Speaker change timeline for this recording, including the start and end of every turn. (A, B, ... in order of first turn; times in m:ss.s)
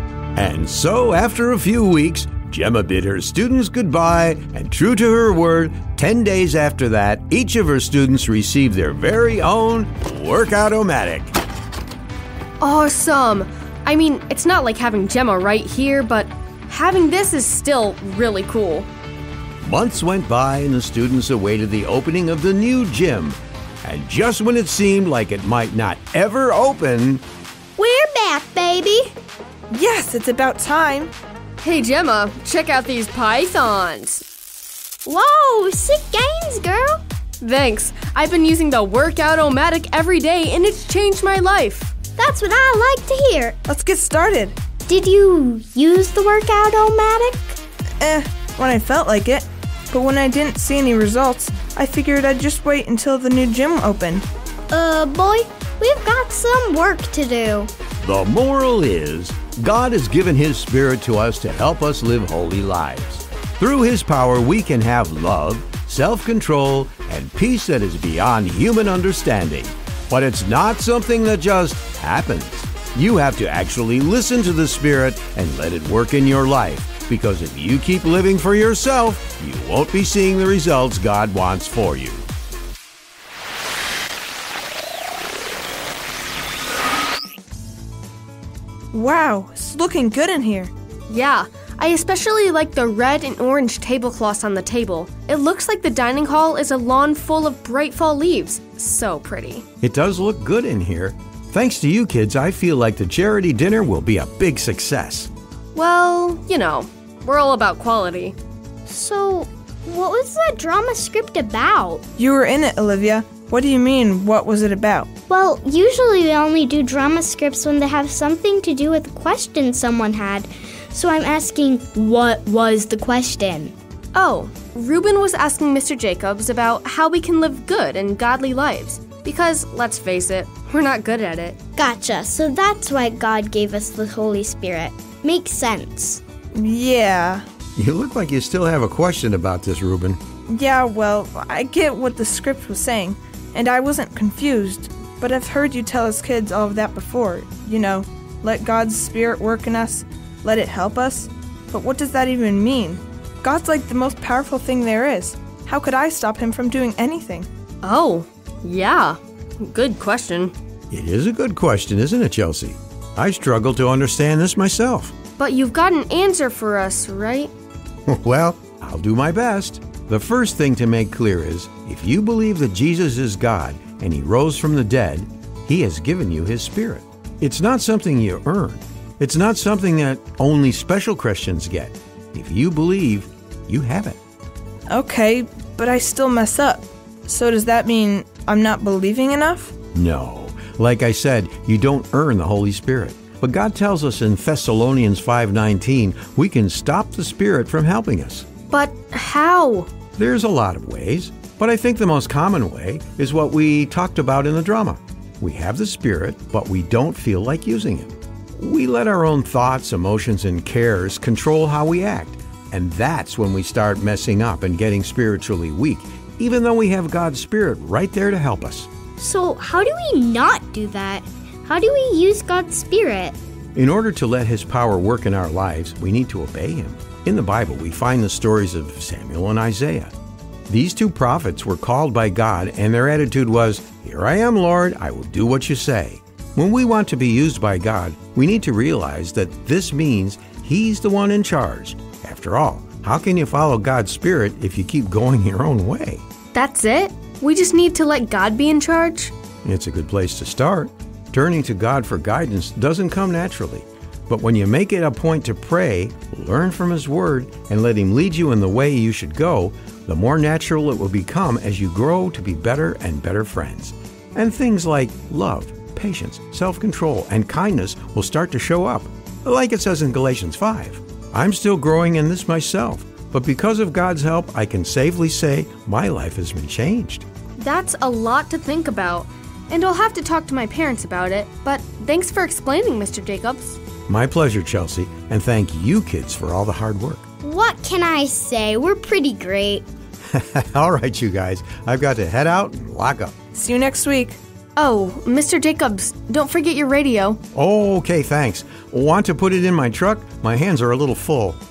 0:00.4-0:11.4 A
0:12.6-0:18.9 B
0:19.6-0:27.2 A
0:27.8-0:29.1 C
0:29.7-0:31.1 D
0:31.6-0:34.2 B
0:35.1-0:37.0 C
0:37.4-0:41.9 B
0:42.2-0:43.6 C
0:43.7-0:44.6 D
0:44.9-0:47.6 C
0:48.0-0:54.2 D
0:54.7-0:57.7 C
0:58.0-1:22.2 A
1:28.9-1:30.7 D
1:31.1-1:39.6 B
1:39.8-1:45.3 A
1:45.7-1:48.4 B
1:48.9-1:52.0 C
1:52.2-1:55.1 D
1:55.3-2:03.7 C
2:04.1-2:11.6 B
2:11.8-2:16.2 C
2:16.5-2:17.4 D
2:17.8-2:20.2 A
2:20.5-2:37.5 D
2:37.8-2:40.5 B
2:40.9-2:45.1 A
2:45.4-2:47.5 B
2:48.1-3:04.2 A
3:04.9-3:09.7 D
3:09.9-3:18.5 A
3:18.7-3:19.9 B
3:20.2-3:38.9 A
3:39.2-3:43.4 C
3:43.8-3:50.1 A
3:50.7-4:06.2 A
4:06.5-4:09.3 B
4:09.6-4:37.2 A
4:37.6-4:43.8 B
4:44.1-4:47.2 A
4:47.4-4:49.8 C
4:50.3-4:53.3 A
4:53.5-4:54.4 D
4:54.8-4:57.4 B
4:57.5-5:01.6 A